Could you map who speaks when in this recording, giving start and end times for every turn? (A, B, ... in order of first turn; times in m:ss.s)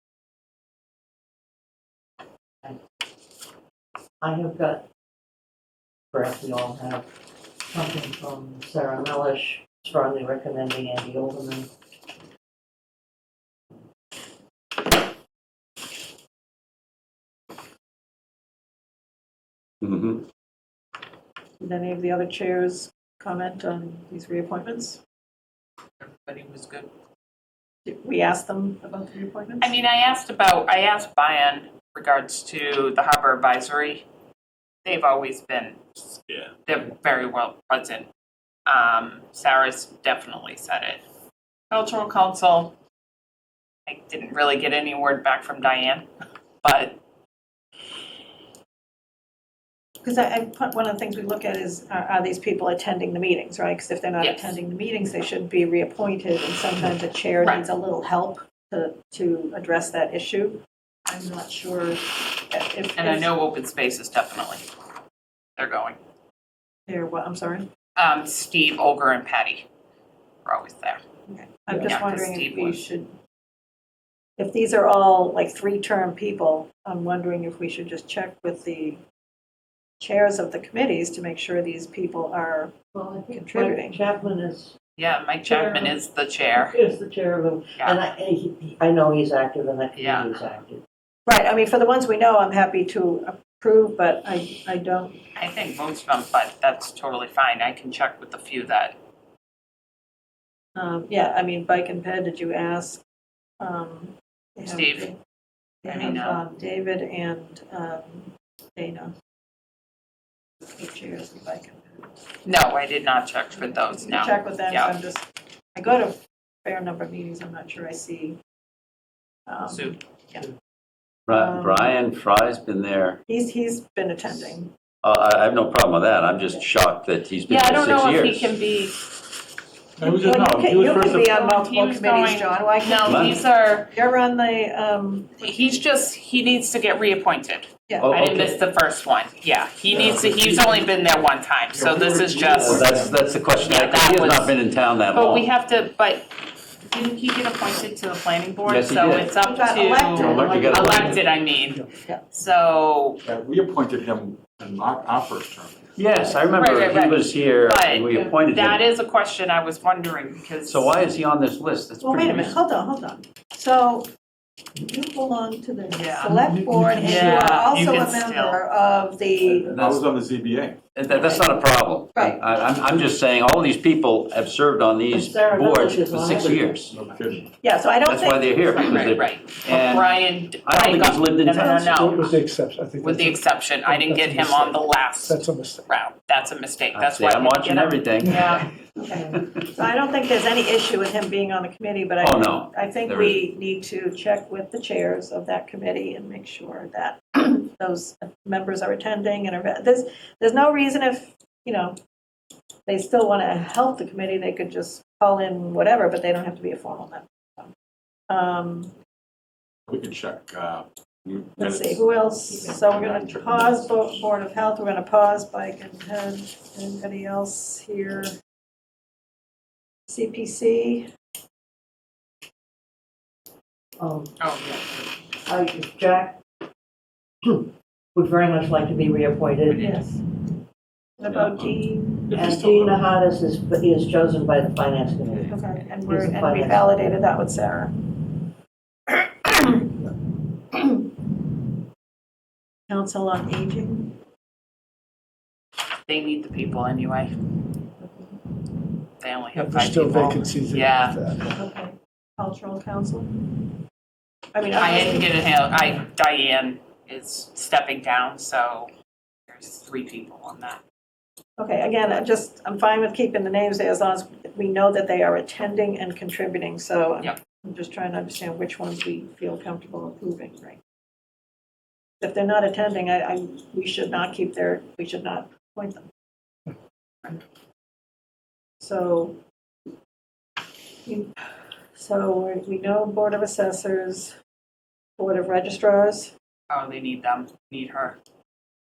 0:04.2-0:04.8 A
0:06.1-0:07.1 A
0:07.7-0:11.7 A
0:19.8-0:20.2 B
0:21.6-0:25.0 C
0:26.0-0:26.9 D
0:27.9-0:29.8 C
0:29.6-0:34.0 D
0:34.8-0:35.8 D
0:36.7-0:38.1 D
0:38.7-0:41.0 D
0:41.7-0:42.7 D
0:43.9-0:46.1 D
0:46.6-0:47.0 D
0:50.0-1:03.3 C
0:54.2-0:54.6 D
1:03.0-1:04.7 D
1:05.6-1:06.0 D
1:06.9-1:07.7 C
1:08.0-1:09.7 D
1:10.5-1:11.0 D
1:11.3-1:13.1 C
1:11.7-1:12.8 D
1:14.4-1:19.0 C
1:20.0-1:22.7 C
1:22.9-1:24.8 A
1:23.3-1:24.0 C
1:25.0-1:26.8 D
1:25.5-1:26.0 A
1:26.6-1:30.8 A
1:30.0-1:30.4 D
1:31.3-1:35.2 C
1:35.4-1:39.0 D
1:40.8-1:43.0 C
1:43.6-1:45.2 C
1:44.6-1:45.1 D
1:45.8-1:49.1 C
1:45.9-1:46.4 D
1:50.8-1:52.0 C
1:52.4-1:55.0 D
1:53.5-1:58.4 C
1:59.5-2:00.5 C
1:59.7-2:00.0 D
2:01.3-2:01.9 C
2:01.3-2:03.2 B
2:03.3-2:04.7 C
2:05.0-2:08.5 B
2:07.5-2:09.0 D
2:10.0-2:11.4 E
2:10.0-2:15.8 C
2:11.3-2:13.9 D
2:13.0-2:13.4 B
2:15.4-2:23.0 D
2:17.9-2:18.1 C
2:18.0-2:18.6 B
2:19.9-2:20.9 E
2:21.7-2:23.3 E
2:22.6-2:25.5 B
2:23.6-2:24.6 D
2:25.1-2:26.3 D
2:26.9-2:33.2 D
2:28.6-2:29.3 B
2:29.4-2:30.9 C
2:30.1-2:31.3 E
2:30.4-2:31.1 B
2:30.9-2:31.9 F
2:33.2-2:35.9 E
2:36.0-2:38.8 B
2:36.6-2:40.9 D
2:40.6-2:42.6 B
2:42.0-2:44.1 C
2:44.8-2:49.7 C
2:45.9-2:46.4 D
2:46.5-2:47.5 F
2:46.9-2:48.6 D
2:49.5-2:50.9 E
2:49.7-2:50.0 B
2:51.0-2:56.9 B
2:51.1-2:51.6 C
2:52.2-2:52.4 C
2:55.1-2:56.8 A
2:56.9-2:57.5 E
2:57.6-2:59.1 C
2:58.0-3:01.9 B
2:58.8-3:02.3 D
3:01.6-3:05.9 F
3:03.0-3:08.7 D
3:06.9-3:08.7 B
3:09.0-3:22.0 C
3:12.2-3:13.4 B
3:22.9-3:27.7 C
3:28.3-3:28.9 C
3:29.9-3:34.2 E
3:31.6-3:38.4 C
3:40.1-3:41.1 C
3:44.0-3:44.3 A
3:44.4-3:45.1 D
3:45.5-3:46.4 A
3:47.4-3:49.8 A
3:49.7-3:50.0 D
3:49.8-3:50.2 C
3:51.2-3:52.3 C
3:51.4-3:51.7 E
3:52.3-3:53.0 E
3:52.3-3:56.9 A
3:55.5-3:57.9 C
3:59.1-4:00.0 C
4:00.7-4:01.1 C
4:02.9-4:04.2 C
4:06.1-4:07.3 D
4:08.0-4:08.4 C
4:09.2-4:11.2 D
4:09.6-4:11.5 F
4:11.5-4:13.5 C
4:14.5-4:15.3 C
4:14.7-4:18.9 D
4:19.5-4:20.8 D
4:21.6-4:30.8 C
4:32.2-4:36.1 C
4:38.8-4:39.4 C
4:41.1-4:41.3 C
4:42.0-4:44.3 C
4:45.2-4:46.3 C
4:46.7-4:48.2 D